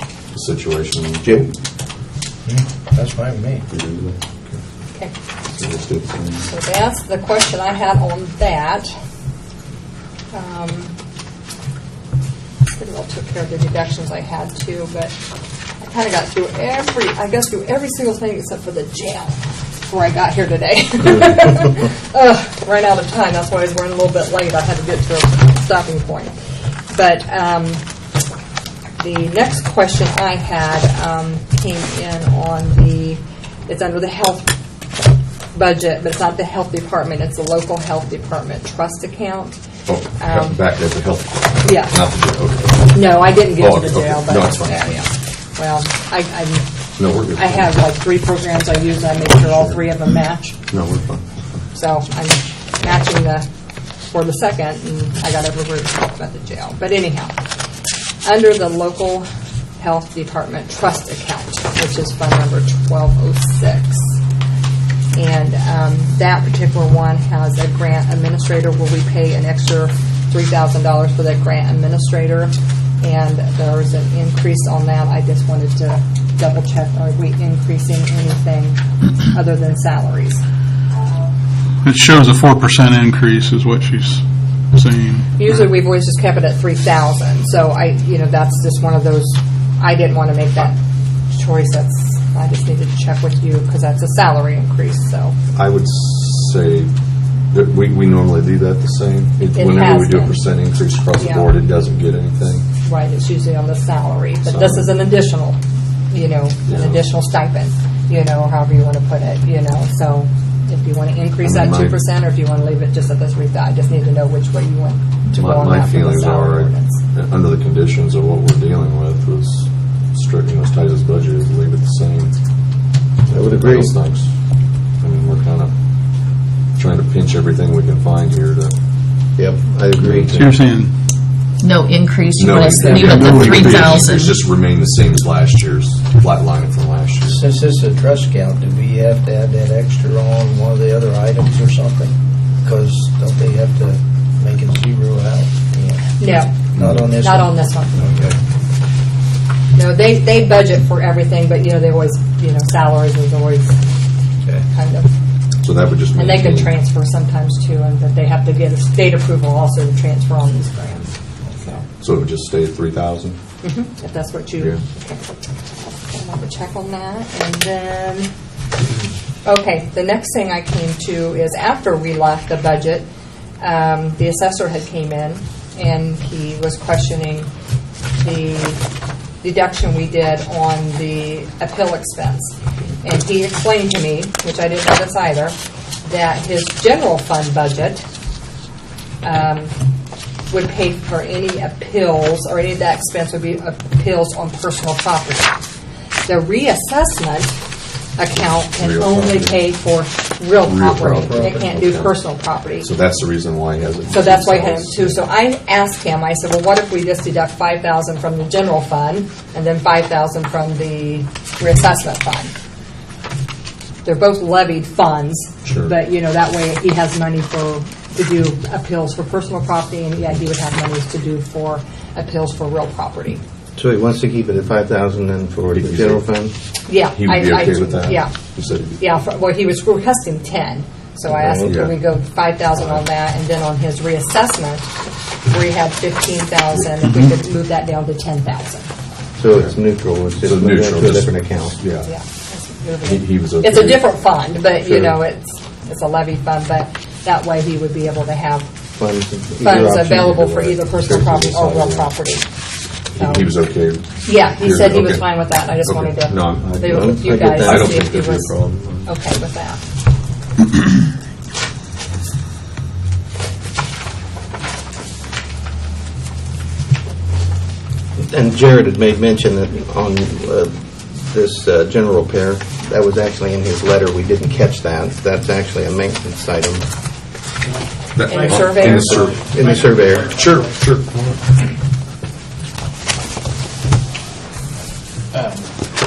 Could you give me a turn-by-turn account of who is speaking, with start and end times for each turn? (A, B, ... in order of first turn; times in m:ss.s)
0:00.3-0:01.4 A
0:02.4-0:03.6 B
0:03.7-0:04.6 A
0:05.5-0:06.5 A
0:06.5-0:08.9 C
0:10.3-0:10.9 C
0:12.7-0:15.1 C
0:15.8-0:26.4 C
0:26.9-0:27.8 C
0:29.0-0:34.5 C
0:35.5-0:39.6 C
0:39.9-0:42.9 A
0:40.2-0:40.6 C
0:41.6-0:42.0 C
0:42.9-0:46.6 C
0:43.5-0:45.0 A
0:47.0-0:47.7 A
0:47.4-0:50.5 C
0:50.7-0:51.2 A
0:51.7-0:53.4 C
0:54.1-0:57.3 C
0:58.2-0:59.2 C
0:59.8-1:04.2 C
1:05.1-1:20.4 C
1:21.8-1:25.3 D
1:25.4-1:30.8 C
1:31.3-1:35.3 C
1:35.5-1:36.9 A
1:37.5-1:42.6 A
1:39.5-1:40.5 C
1:41.1-1:41.5 C
1:42.8-1:45.6 C
1:44.4-1:44.9 A
1:46.1-1:57.0 C
1:46.7-1:47.0 A
1:51.4-1:52.0 A
1:55.3-2:02.3 A
2:03.3-2:03.9 E
2:03.3-2:04.3 A
2:05.0-2:05.7 A
2:06.8-2:08.7 A
2:09.4-2:10.5 E
2:10.0-2:10.6 A
2:10.3-2:10.9 D
2:11.6-2:14.4 F
2:12.4-2:17.4 A
2:13.0-2:14.0 D
2:17.3-2:26.1 B
2:26.2-2:26.6 C
2:26.7-2:27.1 A
2:26.8-2:27.6 B
2:27.2-2:28.1 C
2:28.0-2:28.3 A
2:29.7-2:33.8 C
2:34.6-2:35.1 C
2:35.6-2:36.7 A
2:36.1-2:41.1 C
2:41.8-2:43.4 A
2:43.6-2:48.3 C
2:49.4-2:53.1 C
2:53.6-2:57.5 C
2:58.2-2:58.8 C
2:59.4-3:08.0 C
3:09.2-3:09.7 C
3:10.5-3:15.6 C
3:16.2-3:17.6 C
3:18.2-3:22.9 C
3:18.4-3:19.6 A
3:20.6-3:22.2 A
3:21.2-3:21.7 B
3:22.8-3:25.2 A
3:24.1-3:32.5 C
3:34.0-3:43.4 C
3:35.6-3:35.9 A
3:43.8-3:46.5 E
3:45.7-3:46.2 A
3:46.9-3:48.3 C
3:47.1-3:49.0 A
3:49.0-3:54.9 C
3:51.3-3:51.7 E
3:51.6-3:52.0 A
3:52.8-3:53.0 A
3:55.5-3:58.9 C
3:59.4-4:01.8 E
4:00.4-4:02.1 A
4:02.0-4:08.7 C
4:03.0-4:04.1 A
4:04.8-4:05.1 A
4:09.0-4:11.9 E
4:09.6-4:12.5 C
4:10.3-4:12.0 A
4:13.1-4:13.5 C
4:13.1-4:19.1 A
4:14.2-4:19.8 C
4:16.6-4:18.0 E
4:28.2-4:36.9 E
4:38.1-4:39.4 A
4:38.2-4:39.2 C
4:38.2-4:40.8 G
4:39.3-4:40.4 E
4:40.2-4:41.4 A
4:45.3-4:45.7 G